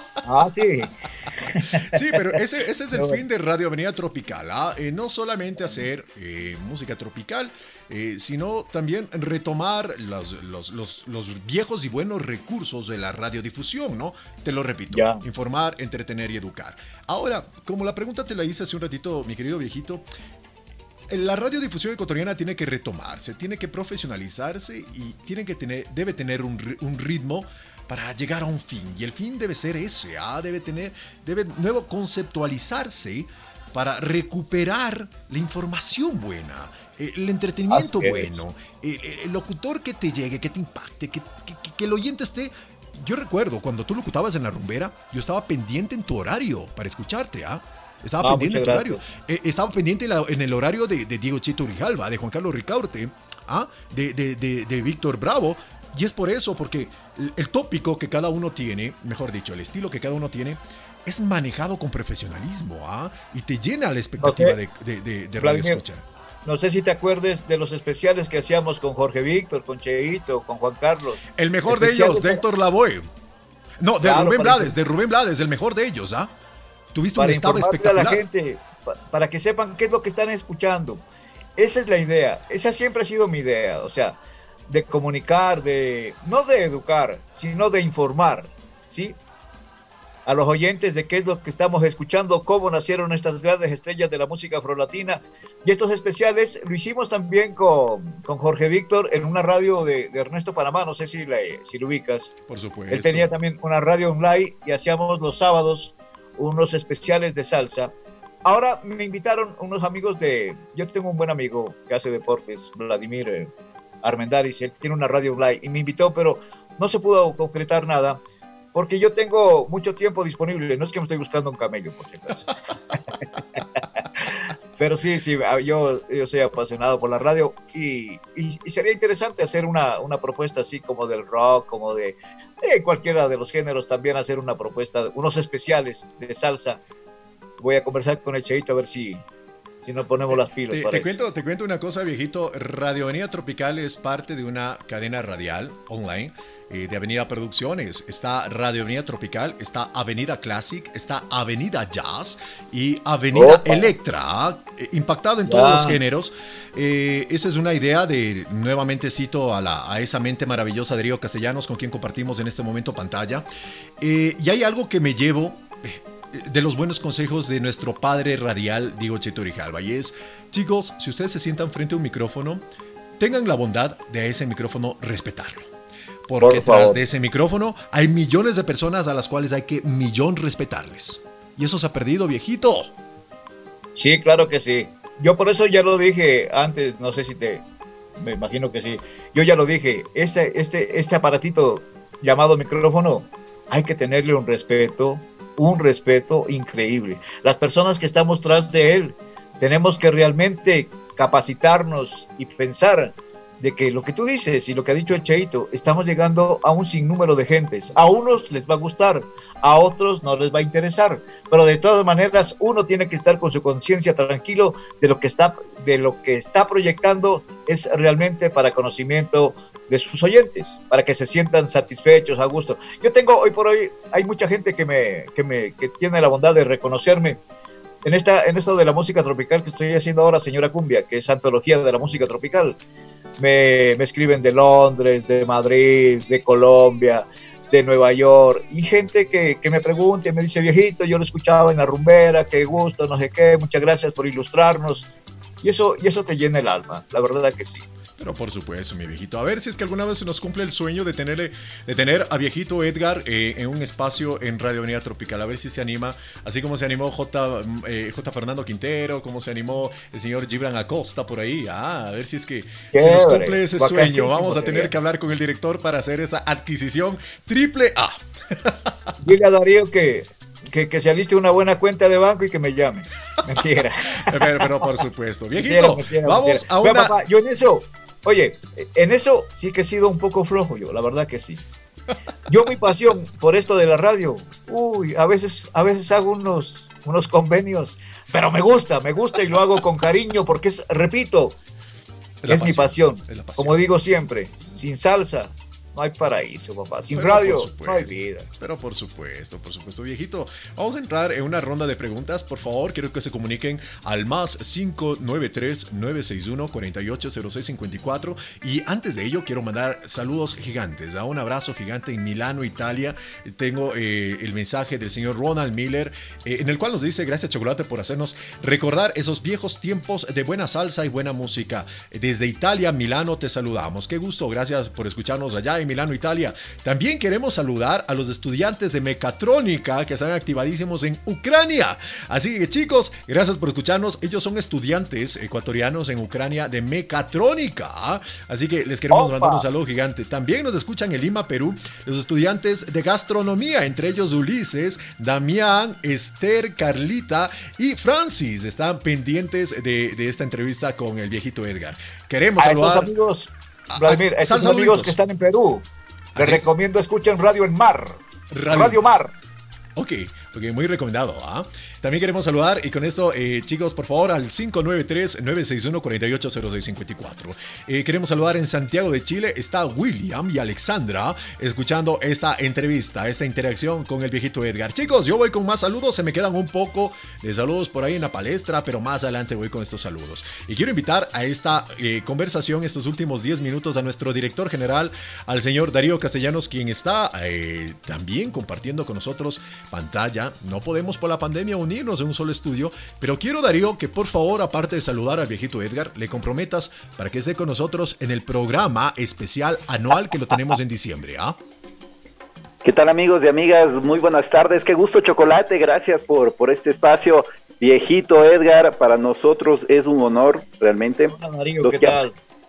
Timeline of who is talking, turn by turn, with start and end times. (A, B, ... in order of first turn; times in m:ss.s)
0:00.2-0:02.0 A
0:01.8-0:20.0 B
0:02.9-0:03.2 A
0:14.9-0:15.2 A
0:21.1-1:06.0 B
0:37.7-0:38.3 A
0:48.2-0:49.1 A
1:04.2-1:04.6 A
1:05.4-1:05.8 A
1:06.4-1:12.4 A
1:11.4-1:13.1 B
1:13.8-1:16.3 B
1:14.0-1:14.8 A
1:16.9-1:18.2 B
1:17.2-1:21.0 A
1:21.6-1:29.2 A
1:30.3-1:42.3 A
1:42.5-1:43.3 B
1:42.9-1:47.9 A
1:48.4-1:53.5 A
1:54.0-1:58.2 A
1:58.7-2:03.0 A
2:03.6-2:16.8 A
2:17.6-2:19.3 A
2:19.8-2:21.2 A
2:20.3-2:43.5 B
2:33.3-2:33.9 A
2:35.4-2:36.0 A
2:44.0-2:52.6 B
2:53.2-2:55.7 B
2:56.3-3:02.9 B
2:56.4-2:57.0 A
3:04.0-3:07.6 A
3:08.2-3:47.4 A
3:48.0-3:52.8 A
3:53.4-4:05.1 A
4:05.6-4:07.9 A
4:08.2-4:28.9 B
4:22.9-4:24.9 A
4:29.2-4:34.7 A
4:34.2-4:37.2 B
4:35.6-4:41.6 A
4:42.5-4:51.6 A
4:52.4-4:53.8 B
4:52.5-4:58.5 A
4:57.1-5:53.1 B
5:39.1-5:39.7 A
5:52.6-5:59.3 A
5:53.9-5:55.2 B
5:56.4-5:56.7 B
5:58.5-5:59.0 B
6:00.0-6:41.6 B
6:42.8-6:52.2 C
6:51.3-6:52.4 A